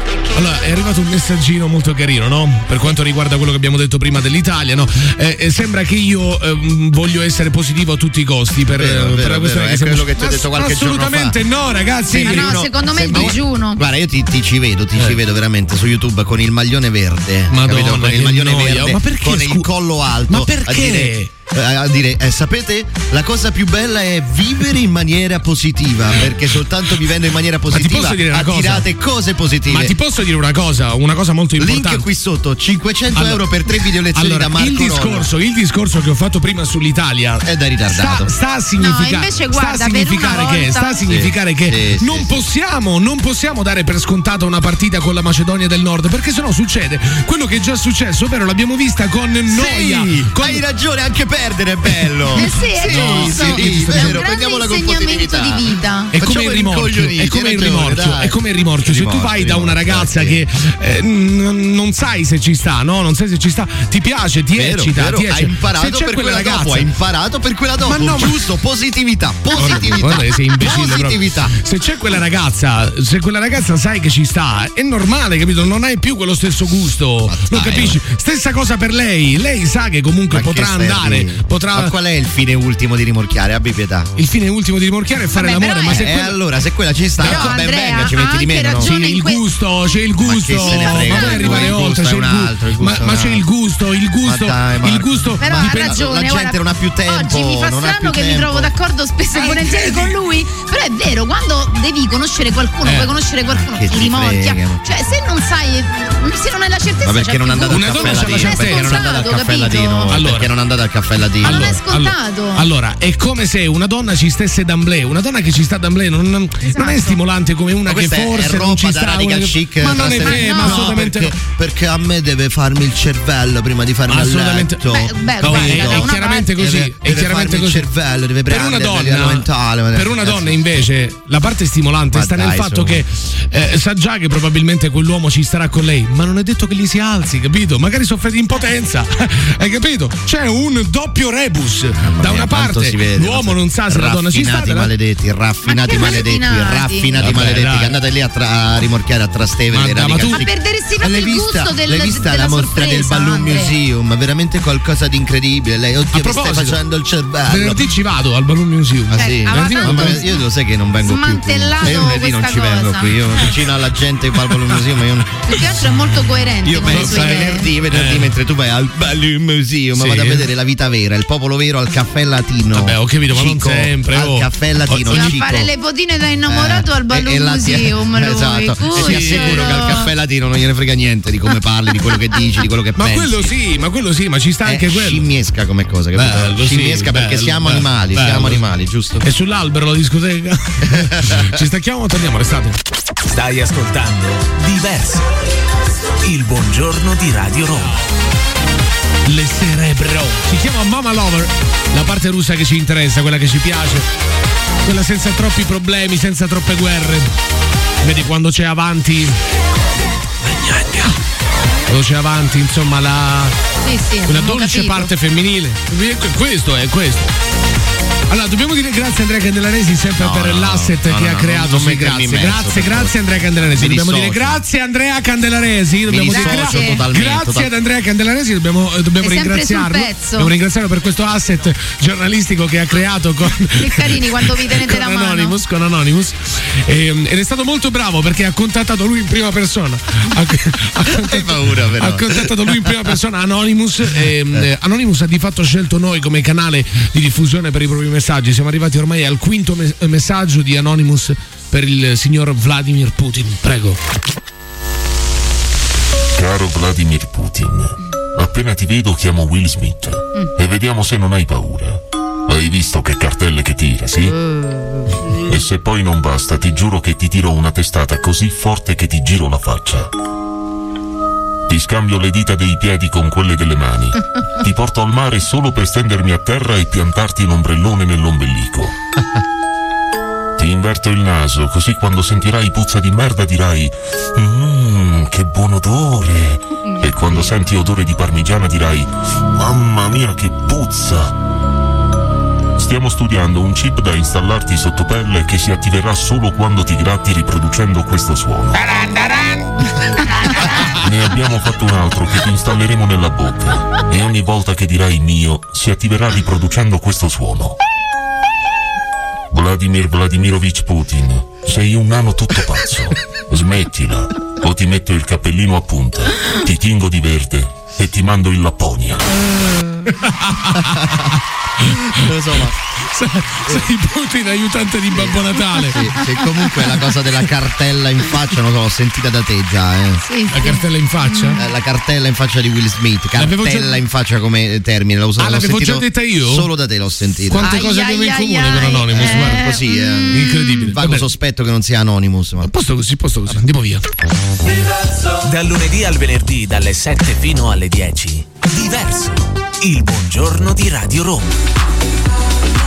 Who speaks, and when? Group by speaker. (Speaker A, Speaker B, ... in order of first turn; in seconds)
Speaker A: 0.3-13.4, 17.5-19.7, 20.3-21.3, 27.7-28.9, 29.7-32.0, 33.1-33.5, 34.1-50.6, 52.0-54.2, 56.1-66.9, 67.8-68.5, 69.5-81.9, 84.2-86.3, 87.2-87.6, 88.8-96.0, 99.3-100.2, 102.8-103.1, 107.7-109.1, 110.1-110.5, 111.4-121.3, 124.1-127.9, 128.5-144.9, 147.2-148.0, 149.7-150.4, 156.1-156.8, 157.5-160.2, 166.9-168.4, 170.0-170.5, 172.7-175.4, 178.9-179.9, 183.0-185.2, 186.2-188.7, 189.2-192.8, 197.8-198.1, 199.2-204.1, 204.8-207.3, 208.0-209.4, 210.4-211.2, 211.9-213.6, 214.3-217.3, 218.3-254.0, 298.9-299.7, 320.1-322.3, 323.0-326.1, 330.5-331.6, 333.4-334.0, 335.4-336.7, 337.5-339.7, 340.3-341.3, 342.6-344.1
Speaker B: 8.7-11.4, 12.1-29.9, 31.6-35.3, 37.5-38.3, 41.0-42.4, 49.5-60.4, 64.5-71.6, 77.3-78.0, 80.3-84.1, 85.9-88.9, 90.2-93.4, 94.2-98.7, 103.7-104.8, 107.0-111.8, 117.9-130.7, 132.1-133.0, 142.0-157.9, 159.1-165.4, 166.6-175.7, 176.5-183.5, 184.7-189.2, 190.9-191.6, 220.2-224.6, 226.1-227.7, 241.1-243.1, 322.1-322.8, 325.1-330.2, 331.6-337.7, 339.1-342.7
Speaker C: 12.2-13.8, 38.8-41.0, 52.4-56.1, 69.5-70.1, 85.4-86.2, 87.2-89.4, 90.6-91.8, 95.4-110.1, 111.4-112.7, 116.7-117.2, 120.1-120.9, 124.9-126.5, 145.6-147.2, 150.3-153.8, 159.1-160.4, 161.0-163.4, 165.5-167.7, 175.1-180.1, 213.8-215.1, 226.3-227.0, 229.2-230.5, 233.8-235.6, 286.8-287.4, 330.2-331.6, 337.6-340.9
Speaker D: 193.3-195.3, 196.2-198.0, 345.4-351.5
Speaker E: 256.4-264.4, 265.3-270.1, 271.7-278.9, 280.6-291.3, 292.8-298.9, 300.8-307.8, 309.5-319.4